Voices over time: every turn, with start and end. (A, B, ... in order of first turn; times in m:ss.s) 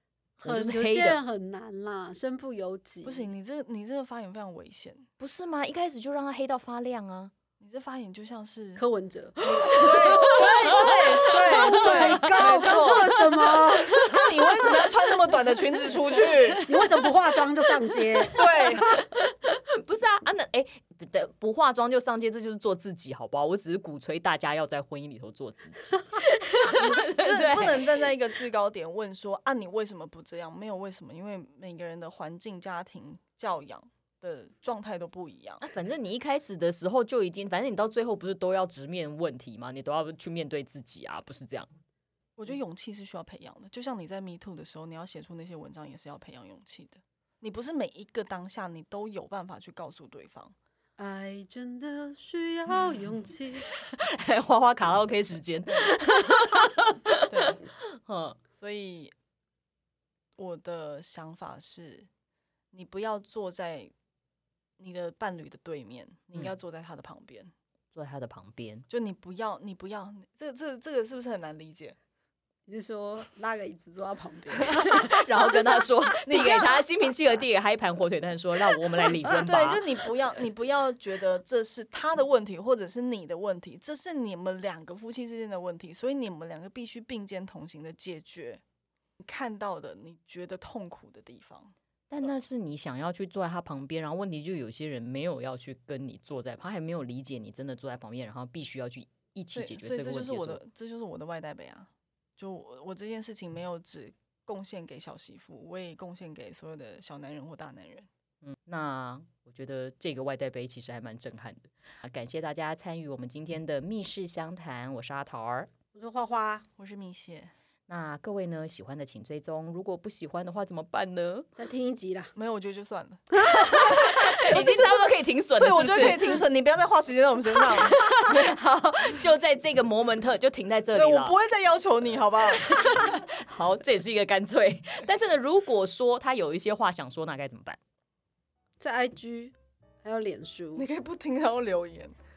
0:00.4-0:01.2 A
0:00.4-0:03.3 B
0:03.0-0:05.1 C
0:05.2-0:07.3 A
0:07.6-0:08.8 C
0:08.8-0:14.1 B
0:09.6-0:15.0 A
0:09.6-0:13.2 C
0:14.0-0:16.7 C
0:16.6-0:18.6 B
0:18.2-0:27.9 A
0:18.3-0:18.9 C
0:26.7-0:35.6 C
0:35.6-0:41.7 A
0:42.4-0:50.5 C
0:51.0-0:53.7 B
0:53.6-0:58.4 A
0:57.3-0:57.6 C
0:58.5-0:59.1 C
1:00.4-1:02.1 C
1:02.7-1:03.9 C
1:04.8-1:07.5 C
1:07.9-1:08.8 A
1:08.9-1:12.0 C
1:12.7-1:16.6 B
1:14.8-1:20.1 A
1:16.2-1:16.8 C
1:19.2-1:28.6 C
1:29.2-1:31.7 C
1:32.1-1:40.6 A
1:39.5-1:48.1 C
1:48.4-1:55.7 A
1:55.9-1:56.6 B
1:56.8-1:57.5 C
1:57.9-2:01.5 A
2:01.6-2:02.3 B
2:02.3-2:08.5 C
2:03.4-2:04.0 B
2:03.7-2:06.4 A
2:07.6-2:11.3 A
2:10.9-2:13.1 C
2:12.6-2:17.8 A
2:18.8-2:20.8 B
2:20.7-2:22.1 C